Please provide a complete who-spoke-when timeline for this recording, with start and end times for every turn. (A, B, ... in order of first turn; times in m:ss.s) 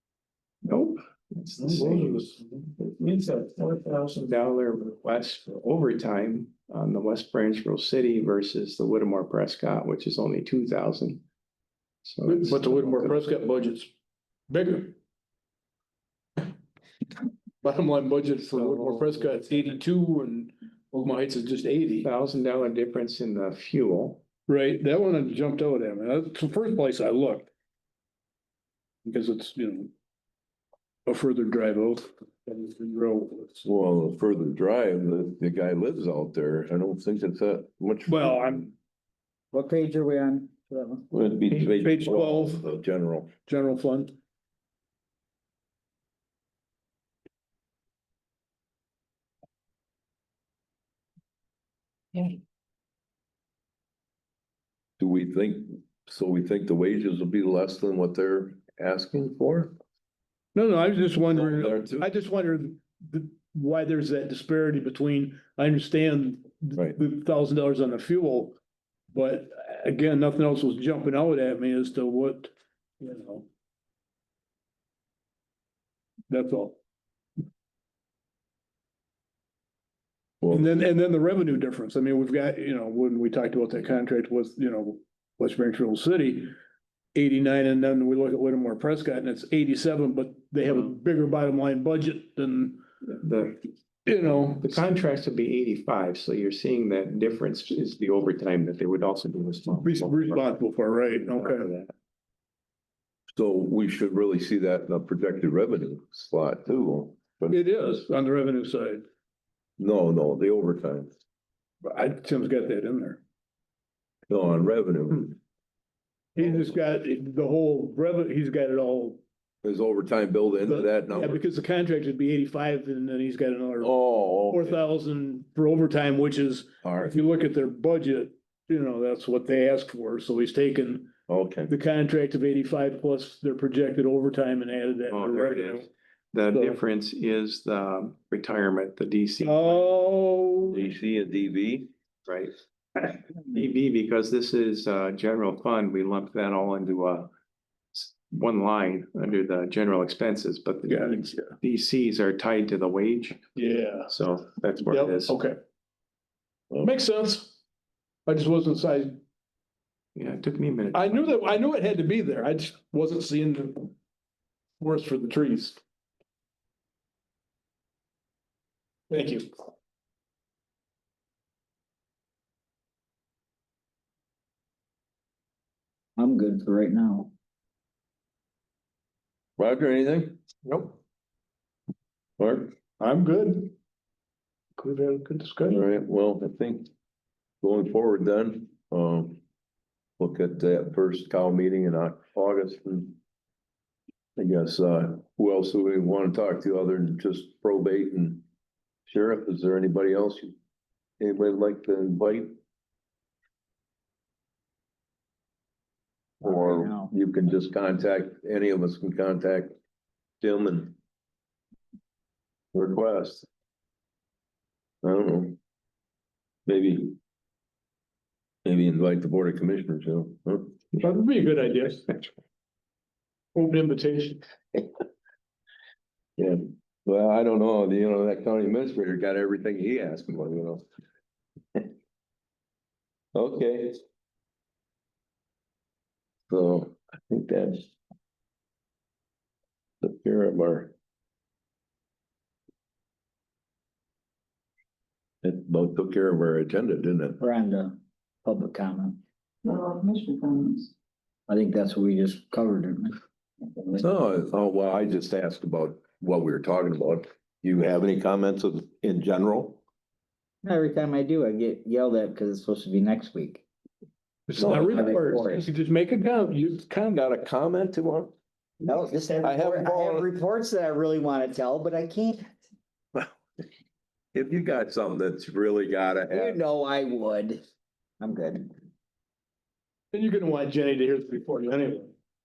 0:00.6-0:11.2 A
0:01.6-0:02.5 B
0:12.0-0:13.2 A
0:12.2-0:13.9 B
0:14.5-0:15.0 B
0:17.6-0:22.1 B
0:18.5-0:19.6 A
0:22.0-0:24.2 A
0:24.5-0:27.5 B
0:29.0-0:29.9 B
0:31.1-0:33.6 B
0:33.6-0:38.5 C
0:38.0-0:38.7 B
0:39.5-0:41.0 D
0:41.1-0:43.3 C
0:41.6-0:42.6 B
0:43.4-0:44.1 B
0:55.0-0:59.7 C
1:00.5-1:08.6 B
1:01.3-1:02.0 C
1:09.1-1:13.4 B
1:16.3-1:16.8 B
1:20.4-1:26.5 B
1:27.1-1:32.8 B
1:33.0-1:33.6 A
1:34.0-1:34.8 B
1:34.6-1:40.6 A
1:39.8-1:41.7 B
1:41.2-1:41.9 A
1:43.4-1:47.6 C
1:47.5-1:49.0 B
1:49.8-1:51.1 C
1:51.8-1:53.2 B
1:54.3-1:55.4 C
1:56.3-1:59.2 B
1:59.6-2:01.4 C
2:00.6-2:03.9 B
2:03.8-2:04.8 C
2:04.5-2:11.1 B
2:06.8-2:07.2 C
2:11.3-2:11.7 C
2:11.7-2:15.9 B
2:15.1-2:20.0 A
2:16.5-2:16.8 B
2:19.4-2:20.8 B
2:20.7-2:21.9 C
2:22.2-2:27.3 A
2:27.9-2:33.4 A
2:30.9-2:31.5 B
2:33.5-2:34.1 B
2:34.1-2:35.4 A
2:34.9-2:35.6 B
2:36.8-2:37.6 B
2:38.2-2:39.1 B
2:40.1-2:41.3 A
2:40.9-2:43.9 B
2:44.8-2:45.8 B
2:49.1-2:49.4 B
2:56.2-2:57.3 D
2:59.6-3:00.4 C
3:02.4-3:02.8 C
3:03.0-3:03.7 B
3:04.8-3:05.8 B
3:05.7-3:06.9 C
3:07.6-3:09.4 C
3:10.2-3:13.2 C
3:14.4-3:18.4 C
3:19.1-3:20.6 C
3:21.2-3:22.6 C
3:26.4-3:29.8 C
3:26.4-3:27.1 D
3:30.4-3:31.0 C
3:32.7-3:33.5 C
3:35.0-3:35.6 C
3:36.6-3:37.2 C
3:38.6-3:40.8 C
3:40.9-3:42.2 B
3:43.5-3:44.4 B
3:46.4-3:50.8 C
3:53.3-3:54.0 C
3:56.5-3:57.9 C
4:00.0-4:00.9 C
4:05.4-4:07.4 C
4:07.4-4:10.9 D
4:11.5-4:13.1 D
4:13.7-4:14.0 D
4:14.0-4:19.8 C
4:20.6-4:23.6 D
4:24.5-4:27.2 B
4:24.5-4:25.2 C
4:24.6-4:25.7 D
4:27.1-4:28.3 C
4:28.8-4:32.5 D
4:29.4-4:30.3 C
4:34.3-4:36.6 C
4:36.3-4:37.6 D
4:38.2-4:38.7 D
4:40.1-4:42.1 B